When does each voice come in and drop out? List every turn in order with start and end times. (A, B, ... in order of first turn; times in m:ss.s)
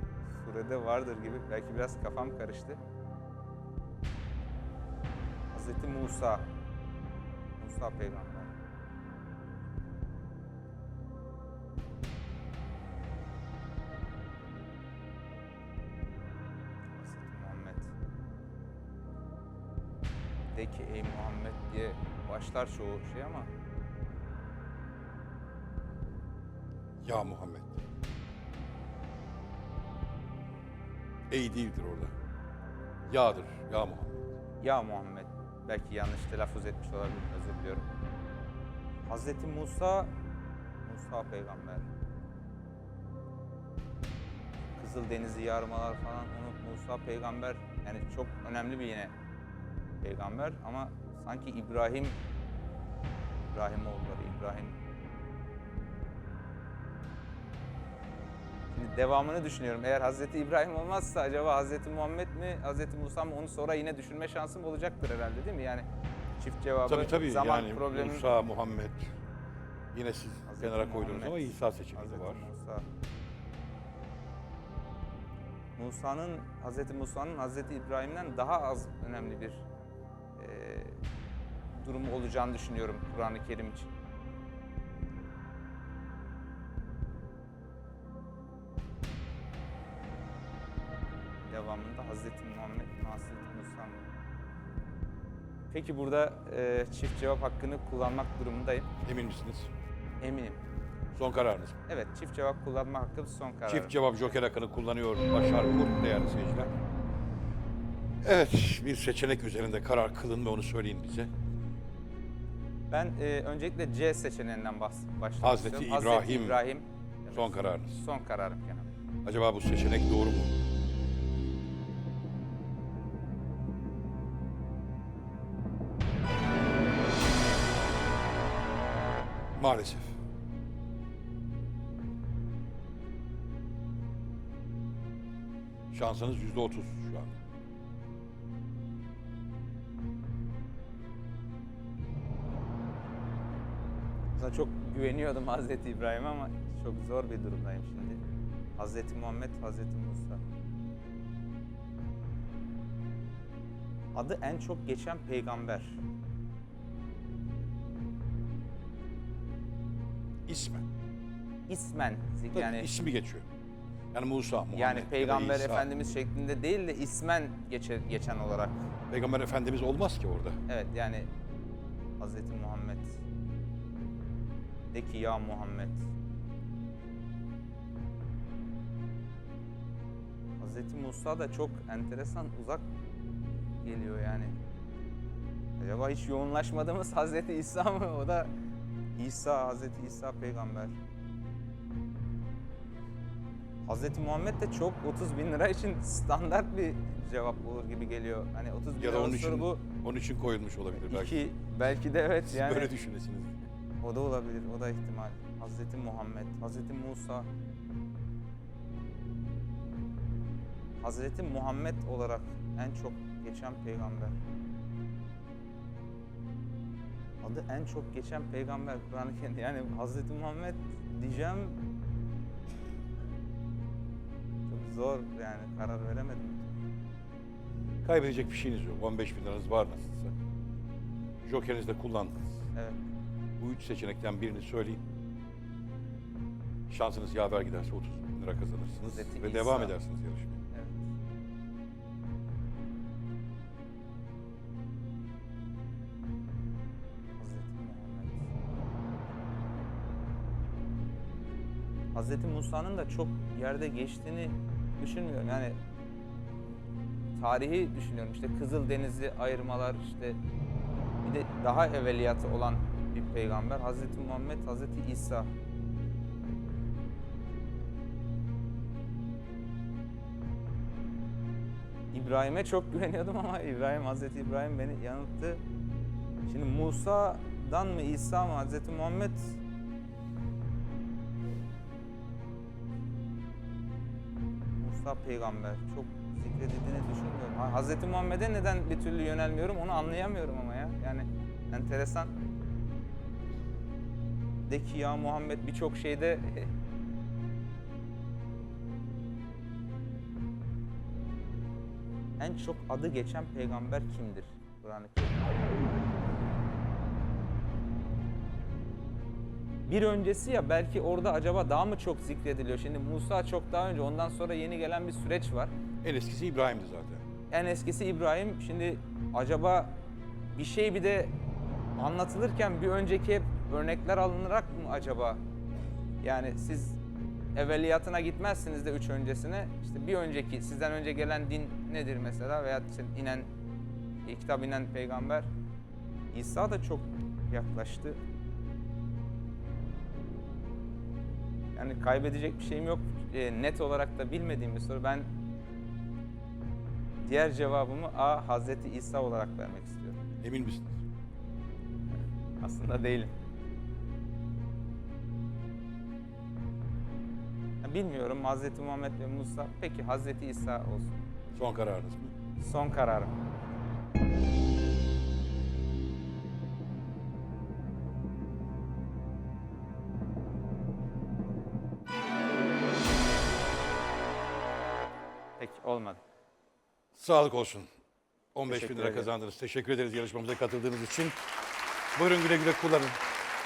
0:00.3-0:02.8 A
0:05.5-0:06.4 A
0:07.6-0:08.5 A
0:17.0-0:17.9 A
0:20.5-0:23.5 A
0:27.0-0:27.8 B
0:31.3-0:32.1 B
0:33.1-0:34.2 B
0:34.6-0:37.9 A
0:39.1-0:40.1 A
0:40.8-0:41.9 A
0:44.7-0:49.1 A
0:50.0-0:52.2 A
0:53.5-0:54.7 A
0:58.7-1:05.8 A
1:06.4-1:08.3 A
1:06.9-1:09.2 B
1:09.9-1:12.5 B
1:10.5-1:12.8 A
1:15.8-1:19.6 A
1:20.4-1:21.0 A
1:21.7-1:23.9 A
1:31.5-1:34.0 A
1:35.7-1:38.9 A
1:39.0-1:39.7 B
1:40.2-1:40.6 A
1:41.1-1:41.8 B
1:41.9-1:44.3 A
1:43.7-1:46.7 B
1:48.2-1:51.3 B
1:52.9-1:58.9 A
1:55.4-1:56.6 B
1:57.3-1:58.0 B
1:59.2-2:00.6 B
2:09.6-2:10.2 B
2:15.9-2:17.4 B
2:24.4-2:28.2 A
2:28.8-2:30.4 A
2:34.1-2:36.0 A
2:40.5-2:40.8 B
2:41.7-2:42.9 A
2:42.5-2:43.5 B
2:44.1-2:46.0 B
2:44.7-2:48.8 A
2:49.1-2:50.6 B
2:50.7-2:51.3 A
2:52.2-2:53.2 A
2:54.9-2:56.0 A
3:00.6-3:02.8 A
3:03.8-3:04.5 A
3:05.8-3:08.5 A
3:09.2-3:11.0 A
3:13.9-3:19.8 A
3:19.0-3:21.5 B
3:21.0-3:22.9 A
3:22.5-3:23.7 B
3:24.0-3:27.5 A
3:31.0-3:34.4 A
3:37.4-3:41.8 A
3:44.7-3:46.8 A
3:48.0-3:50.3 B
3:51.4-3:52.6 B
3:53.6-3:55.0 B
3:56.9-4:00.6 B
3:59.0-4:00.0 A
4:00.7-4:01.0 A
4:07.4-4:08.4 A
4:12.1-4:15.8 A
4:17.4-4:20.4 A
4:21.2-4:25.5 A
4:32.1-4:35.6 A
4:36.5-4:39.6 A
4:44.8-4:52.3 A
4:54.7-4:56.7 A
5:02.4-5:05.6 A
5:09.9-5:15.7 A
5:16.0-5:17.2 B
5:17.5-5:20.0 A
5:20.6-5:21.3 A
5:22.0-5:25.4 A
5:26.2-5:27.0 A
5:27.6-5:33.5 A
5:34.2-5:35.5 A
5:36.3-5:38.2 A
5:41.8-5:45.3 A
5:47.2-5:50.2 A
5:50.4-5:51.0 B
5:52.6-5:53.3 A
5:57.8-6:01.2 A
6:01.6-6:02.3 B
6:02.6-6:03.3 A
6:15.6-6:16.2 A
6:17.2-6:17.9 B
6:18.5-6:21.4 B
6:18.7-6:19.3 A
6:22.2-6:23.2 B